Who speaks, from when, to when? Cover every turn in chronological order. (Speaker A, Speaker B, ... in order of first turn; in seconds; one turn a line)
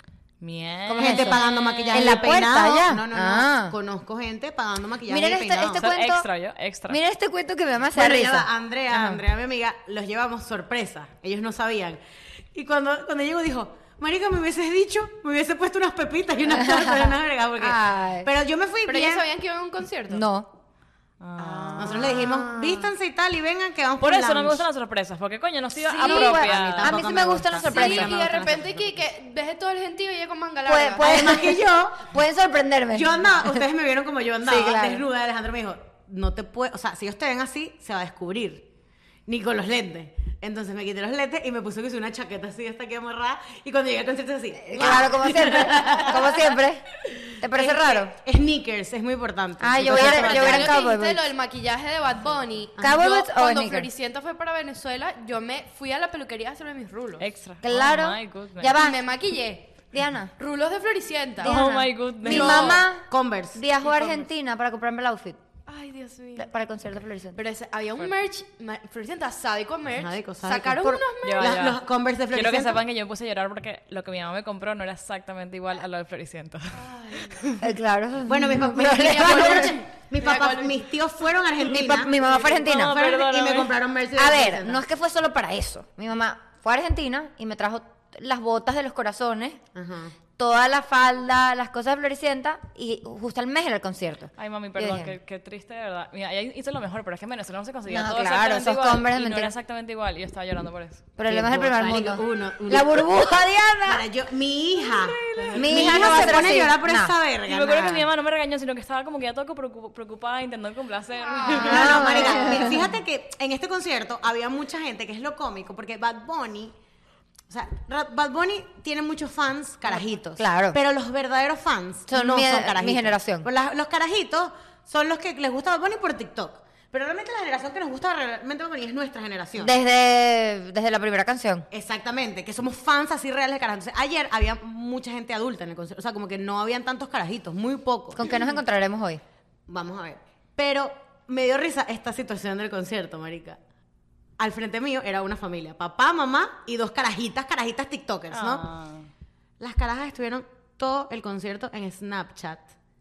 Speaker A: 0.4-2.4
Speaker B: 0.9-5.8
Speaker C: 1.0-3.8
Speaker C: 5.1-6.3
Speaker A: 5.7-7.0
Speaker C: 6.9-9.2
Speaker B: 7.9-12.0
Speaker B: 12.5-19.2
Speaker C: 16.5-18.3
Speaker D: 18.9-20.2
Speaker C: 20.1-20.5
Speaker A: 21.2-22.1
Speaker D: 21.4-22.9
Speaker B: 21.8-24.6
Speaker A: 24.0-27.0
Speaker D: 25.9-26.3
Speaker C: 26.0-28.2
Speaker B: 26.2-29.0
Speaker D: 27.6-31.1
Speaker C: 30.6-33.6
Speaker B: 31.0-32.1
Speaker B: 32.9-38.7
Speaker C: 34.4-35.0
Speaker B: 39.3-46.5
Speaker C: 44.6-48.1
Speaker B: 47.3-50.8
Speaker C: 49.6-51.3
Speaker D: 49.9-57.2
Speaker C: 52.8-53.9
Speaker A: 57.2-58.8
Speaker C: 57.6-59.0
Speaker D: 58.7-59.8
Speaker C: 59.9-60.3
Speaker D: 60.4-61.6
Speaker C: 61.4-65.4
Speaker A: 61.4-62.8
Speaker B: 62.3-63.6
Speaker D: 62.3-62.7
Speaker D: 65.7-66.5
Speaker C: 66.3-67.4
Speaker D: 67.3-71.7
Speaker B: 70.0-72.8
Speaker A: 71.2-71.8
Speaker A: 72.3-76.9
Speaker D: 76.7-77.5
Speaker C: 77.6-79.8
Speaker B: 78.2-82.1
Speaker D: 78.9-80.9
Speaker C: 81.6-83.0
Speaker D: 82.1-82.6
Speaker A: 82.2-83.8
Speaker B: 82.7-84.8
Speaker C: 84.2-89.6
Speaker B: 89.7-90.1
Speaker C: 90.4-95.1
Speaker A: 94.4-101.0
Speaker C: 97.9-99.5
Speaker C: 101.2-104.0
Speaker B: 101.3-103.1
Speaker B: 103.8-108.0
Speaker A: 104.8-106.6
Speaker C: 105.5-107.1
Speaker A: 107.5-112.6
Speaker D: 111.2-112.7
Speaker C: 111.5-112.9
Speaker B: 111.5-116.7
Speaker B: 117.5-129.8
Speaker C: 119.9-120.8
Speaker C: 122.1-123.5
Speaker C: 129.6-131.7
Speaker B: 131.7-138.3
Speaker C: 138.1-139.2
Speaker B: 139.7-143.6
Speaker B: 144.4-148.7
Speaker A: 148.3-149.1
Speaker B: 149.6-152.7